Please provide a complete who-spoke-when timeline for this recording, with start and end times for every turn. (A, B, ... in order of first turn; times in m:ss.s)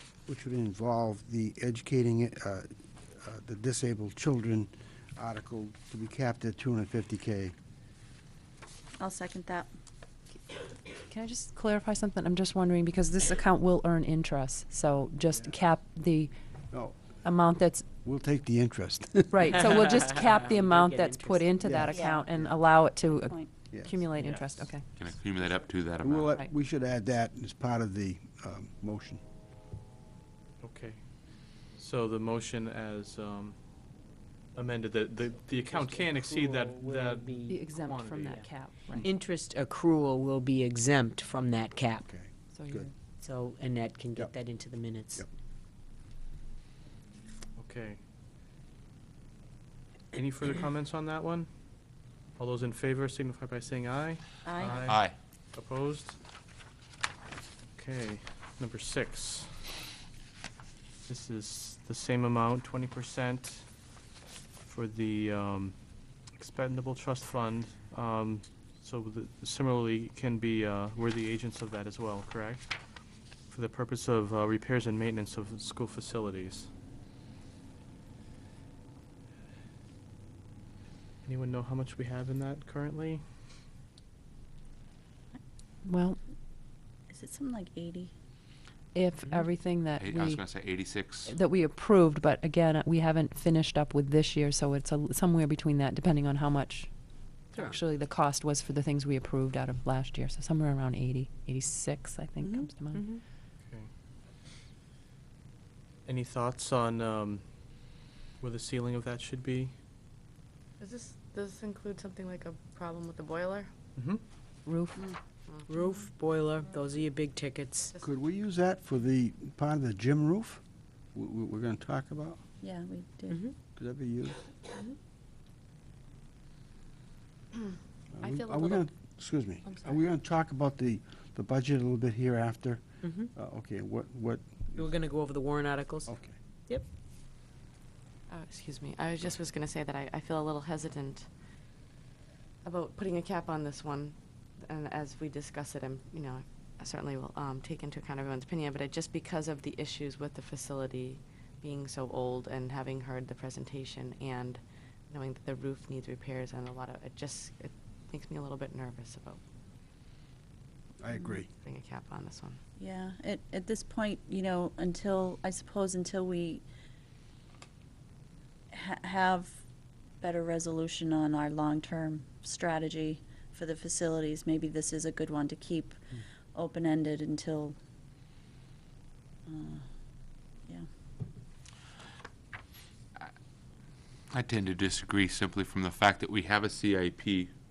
0:00.3-0:07.6 A
0:09.0-0:09.7 B
0:11.1-0:16.3 C
0:16.7-0:17.1 A
0:17.2-0:17.9 C
0:18.0-0:19.8 A
0:19.3-0:25.0 C
0:20.1-0:21.4 D
0:21.6-0:22.6 A
0:21.9-0:22.2 B
0:23.7-0:24.0 A
0:24.2-0:24.7 E
0:25.0-0:26.3 F
0:26.0-0:29.2 A
0:30.6-0:33.6 E
0:34.5-0:37.5 E
0:35.7-0:38.5 D
0:37.5-0:39.1 C
0:39.0-0:42.1 D
0:42.0-0:42.9 A
0:42.5-0:42.9 C
0:43.2-0:45.2 D
0:47.6-0:48.0 E
0:50.1-0:51.5 E
0:52.4-0:56.2 E
0:54.4-0:54.9 B
0:54.8-0:55.2 F
0:57.8-0:59.7 E
1:01.1-1:03.7 E
1:04.7-1:16.7 E
1:21.2-1:23.2 E
1:25.8-1:26.2 C
1:27.1-1:28.1 B
1:28.9-1:43.1 C
1:30.0-1:31.3 F
1:46.1-1:47.9 E
1:48.4-1:49.7 E
1:50.8-1:53.7 G
1:54.0-1:54.2 E
1:54.6-1:55.0 C
1:55.5-1:56.0 G
1:55.7-1:57.9 D
1:58.0-2:00.6 A
2:01.1-2:02.4 A
2:02.6-2:03.4 B
2:03.3-2:03.6 D
2:03.7-2:04.4 A
2:08.2-2:15.0 A
2:08.2-2:08.9 G
2:09.6-2:10.0 G
2:13.0-2:13.3 D
2:14.8-2:16.1 D
2:16.0-2:16.4 A
2:18.3-2:21.3 G
2:22.6-2:39.4 G
2:41.0-2:41.5 A
2:41.6-2:42.6 G
2:42.8-2:46.6 B
2:48.7-2:49.6 B
2:50.2-2:56.0 B
2:56.5-2:57.8 B
2:59.5-2:59.9 B
3:04.3-3:07.5 F